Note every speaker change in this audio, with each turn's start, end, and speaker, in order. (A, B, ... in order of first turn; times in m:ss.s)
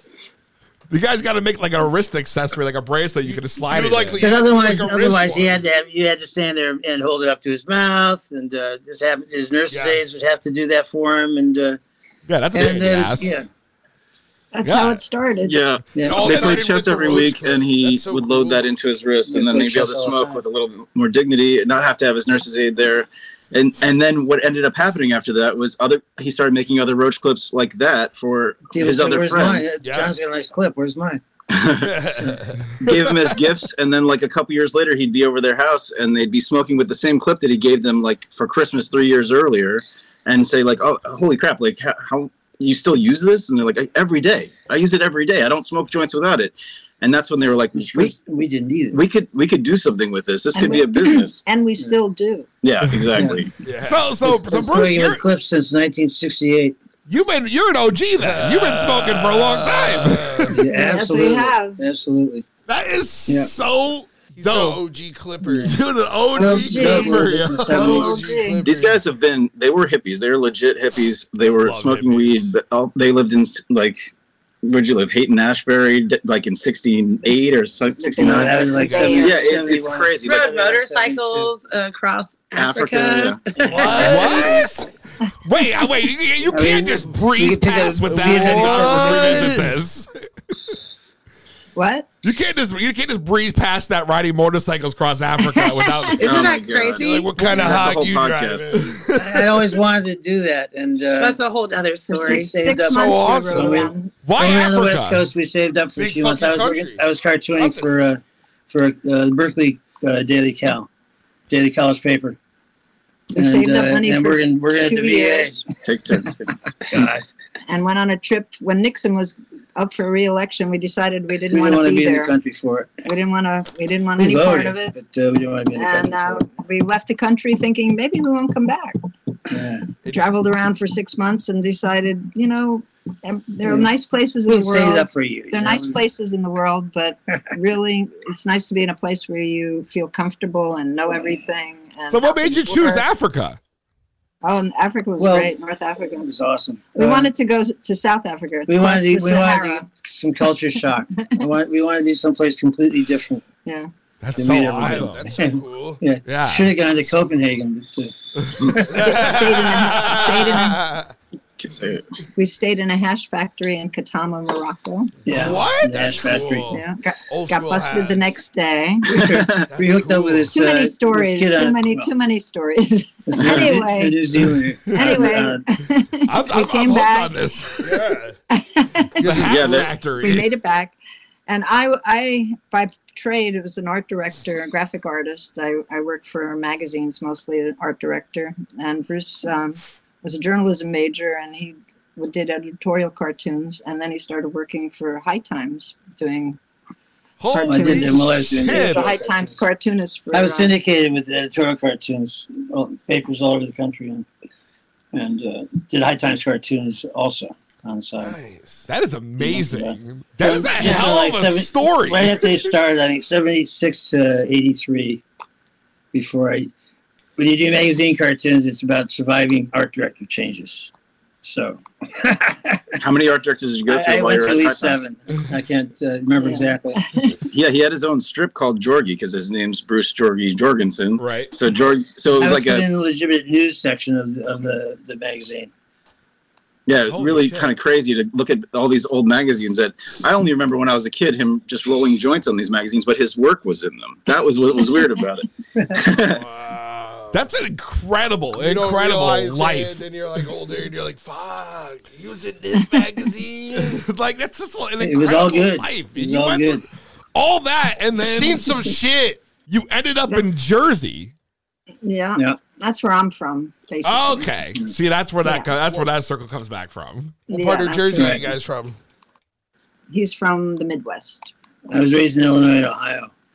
0:00.9-0:04.2 A
0:03.2-0:05.6 B
0:04.2-0:11.8 C
0:09.7-0:10.0 B
0:12.3-0:13.4 A
0:12.5-0:13.5 C
0:14.5-0:15.6 D
0:14.6-0:15.0 A
0:15.4-0:29.6 E
0:16.0-0:16.3 C
0:16.0-0:18.7 B
0:16.2-0:16.6 A
0:19.3-0:20.4 C
0:28.7-0:31.2 C
0:29.8-0:30.1 B
0:31.5-0:32.1 E
0:31.8-0:32.6 B
0:32.8-0:48.1 E
0:32.9-0:33.2 A
0:47.7-0:49.0 C
0:48.9-0:51.4 E
0:50.5-0:52.5 D
0:52.6-0:53.5 E
0:53.1-0:53.4 C
0:53.6-0:54.1 B
0:53.8-0:55.2 A
0:54.2-0:56.8 C
0:57.1-1:00.6 A
0:58.2-1:00.5 B
1:00.5-1:02.4 C
1:00.6-1:01.8 D
1:02.7-1:04.8 A
1:04.4-1:05.8 B
1:05.4-1:05.7 C
1:05.6-1:07.9 A
1:06.3-1:08.6 D
1:06.4-1:08.2 C
1:07.7-1:09.0 B
1:08.6-1:14.1 E
1:11.4-1:12.4 B
1:14.6-1:20.4 E
1:18.0-1:19.5 D
1:18.2-1:21.5 C
1:18.8-1:19.2 B
1:20.2-1:24.4 F
1:22.5-1:23.4 E
1:23.6-1:24.5 C
1:23.6-1:24.7 B
1:23.9-1:24.9 A
1:25.4-1:30.1 A
1:26.5-1:29.6 C
1:28.1-1:29.7 B
1:31.7-1:32.1 D
1:32.2-1:36.4 A
1:35.4-1:36.2 D
1:36.2-1:37.4 F
1:36.2-1:38.9 E
1:37.0-1:39.0 B
1:37.4-1:38.0 A
1:38.8-1:39.5 A
1:39.1-1:41.4 C
1:41.2-1:42.5 F
1:42.1-1:44.1 D
1:42.2-1:50.9 C
1:42.9-1:43.8 B
1:44.2-1:45.2 A
1:46.0-1:47.0 B
1:47.6-1:47.9 B
1:51.5-1:52.4 C
1:53.3-1:55.6 D
1:53.3-1:55.6 C
1:55.8-1:56.5 E
1:56.8-1:57.2 C
1:57.6-2:02.3 D
2:01.5-2:02.9 C
2:03.0-2:04.9 D
2:04.2-2:06.5 C
2:05.7-2:09.0 D
2:09.5-2:09.9 C
2:10.0-2:10.3 B
2:10.0-2:23.0 D
2:13.6-2:13.9 C
2:14.5-2:16.0 C
2:22.1-2:23.6 A
2:24.4-2:26.3 D
2:25.2-2:25.5 C
2:26.2-2:27.3 C
2:27.0-2:29.9 D
2:28.7-2:33.5 C
2:34.2-2:35.3 A
2:34.4-2:39.1 C
2:34.8-2:36.0 B
2:36.2-2:36.7 A
2:38.5-2:38.8 E
2:38.9-2:41.1 B
2:39.0-2:40.8 D
2:41.6-2:42.0 E
2:42.4-2:45.1 D
2:45.2-2:46.7 C
2:45.3-2:46.3 A
2:45.3-2:48.2 B
2:46.7-2:49.4 D
2:49.1-2:52.1 C
2:49.1-2:49.7 E
2:49.7-2:50.5 B
2:50.5-2:54.2 D
2:53.3-2:55.6 C
2:53.4-2:53.7 E
2:54.9-2:57.5 D
2:56.3-2:57.9 A
2:57.8-2:58.4 B
2:58.5-3:00.9 D
2:59.2-3:00.5 A
2:59.3-2:59.9 E
3:01.5-3:16.6 D
3:17.4-3:19.2 A
3:17.5-3:20.7 D
3:17.6-3:19.6 C
3:20.3-3:24.3 C
3:25.1-3:28.4 C
3:28.2-3:28.9 B
3:28.9-3:32.5 A
3:29.4-3:35.2 C
3:36.1-3:36.7 C
3:37.4-3:40.9 C
3:41.4-3:42.9 C
3:43.0-3:45.0 E
3:43.9-3:47.1 C
3:46.4-3:47.3 D
3:47.5-3:52.9 E
3:51.2-3:51.5 A
3:52.3-3:55.7 C
3:56.8-4:06.4 E
3:57.1-3:57.7 A
4:06.1-4:07.5 B
4:07.3-4:10.0 A
4:08.5-4:14.0 B
4:13.8-4:18.9 A
4:15.0-4:16.8 C
4:18.2-4:19.4 B
4:19.7-4:21.3 A
4:22.0-4:24.5 D
4:24.0-4:27.4 A
4:25.4-4:26.1 D
4:27.5-4:28.5 D
4:27.5-4:29.0 B
4:28.1-4:28.5 C
4:30.1-4:31.5 D
4:31.9-4:33.3 C